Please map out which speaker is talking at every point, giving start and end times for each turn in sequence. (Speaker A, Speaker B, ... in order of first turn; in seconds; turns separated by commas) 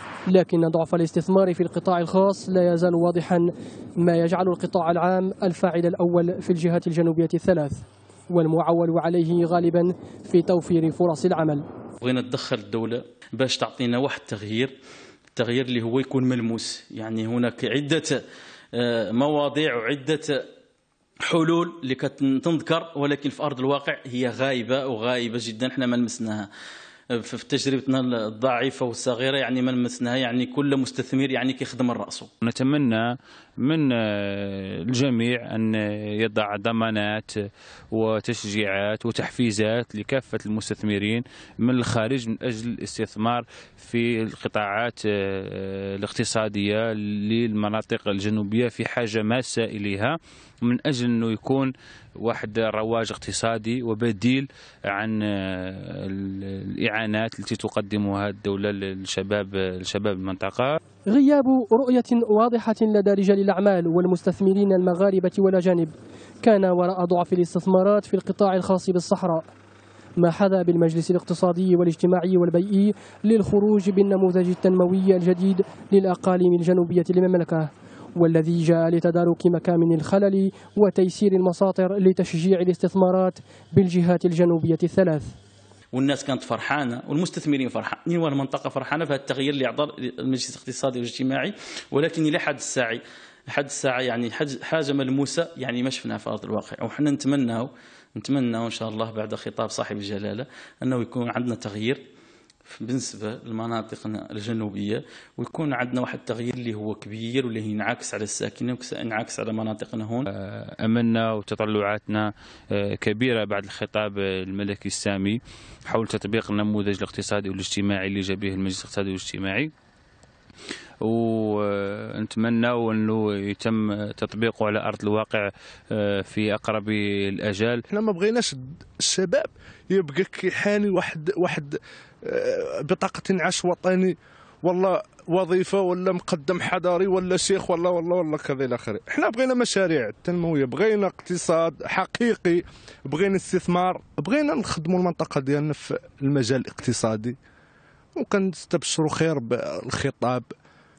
Speaker A: 0.3-3.5, Speaker A: 4.0-11.6, Speaker B: 12.0-14.7, Speaker B: 15.3-18.2, Speaker B: 18.7-20.4, Speaker B: 21.3-26.5, Speaker B: 27.1-32.3, Speaker C: 32.4-37.3, Speaker C: 37.9-60.8, Speaker A: 61.1-69.4, Speaker A: 70.2-85.3, Speaker B: 85.9-102.0, Speaker B: 102.7-110.2, Speaker C: 110.3-119.7, Speaker C: 121.0-127.8, Speaker D: 127.9-147.3, Speaker D: 148.2-150.4